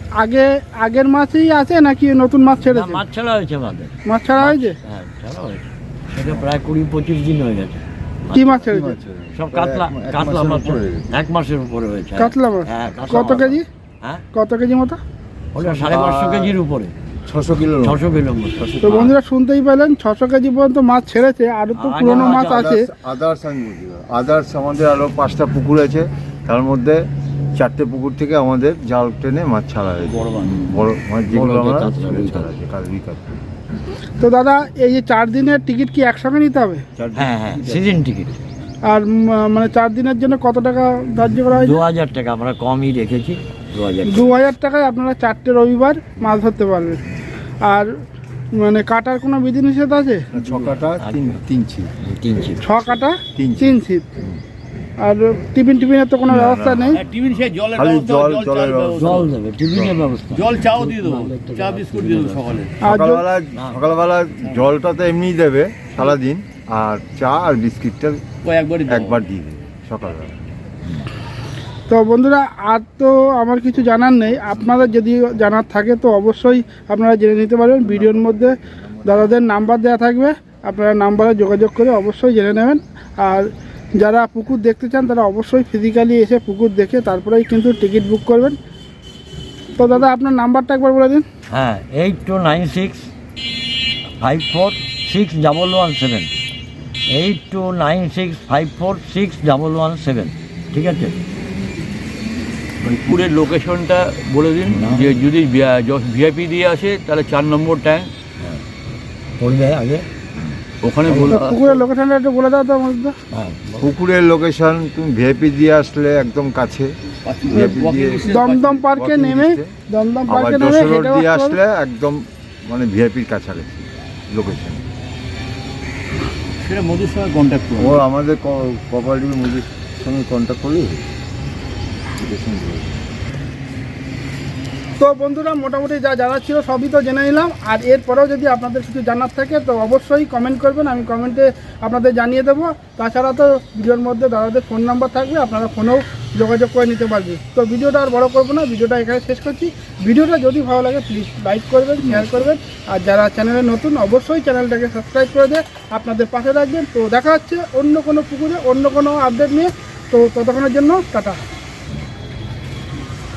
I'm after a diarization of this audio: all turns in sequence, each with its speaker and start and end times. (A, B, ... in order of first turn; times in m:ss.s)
0:00.2-0:03.0 A
0:02.7-0:08.7 B
0:04.0-0:04.8 A
0:08.3-0:09.0 A
0:08.7-0:11.1 C
0:09.3-0:14.2 B
0:12.2-0:13.6 A
0:13.1-0:13.4 C
0:14.3-0:15.0 A
0:15.5-0:16.9 B
0:15.7-0:16.6 C
0:17.2-0:19.2 C
0:17.8-0:19.2 B
0:18.8-0:22.8 A
0:21.8-0:22.8 B
0:22.1-0:33.4 C
0:30.0-0:30.8 D
0:31.3-0:32.5 B
0:34.2-0:36.8 A
0:37.0-0:37.9 C
0:37.2-0:38.4 B
0:38.8-0:41.8 A
0:41.5-0:44.4 B
0:44.1-0:47.0 A
0:47.6-0:47.9 A
0:48.6-0:50.3 A
0:50.3-0:51.9 C
0:50.4-0:51.2 B
0:52.0-0:52.6 B
0:52.6-0:54.1 A
0:53.4-0:53.8 C
0:55.0-0:57.0 A
0:56.3-0:57.0 C
0:57.0-0:59.3 D
0:57.7-0:59.2 C
0:59.0-1:02.6 B
1:00.3-1:02.7 D
1:02.8-1:03.2 A
1:02.8-1:08.2 C
1:03.6-1:03.8 B
1:08.4-1:09.2 D
1:08.9-1:10.4 C
1:11.9-1:28.6 A
1:17.8-1:19.4 C
1:29.8-1:31.2 A
1:31.5-1:33.1 B
1:34.2-1:36.3 B
1:37.1-1:41.2 B
1:42.8-1:48.1 D
1:44.7-1:45.2 B
1:49.4-1:50.1 B
1:50.8-1:51.8 D
1:51.1-1:51.4 C
1:51.3-1:53.2 A
1:53.3-1:53.9 B
1:53.8-1:56.9 C
1:57.2-1:58.8 D
1:57.5-1:59.7 C
1:58.3-2:01.6 A
2:00.3-2:04.8 C
2:06.6-2:08.0 D
2:07.8-2:11.0 C
2:12.2-2:13.0 C
2:15.0-2:41.4 A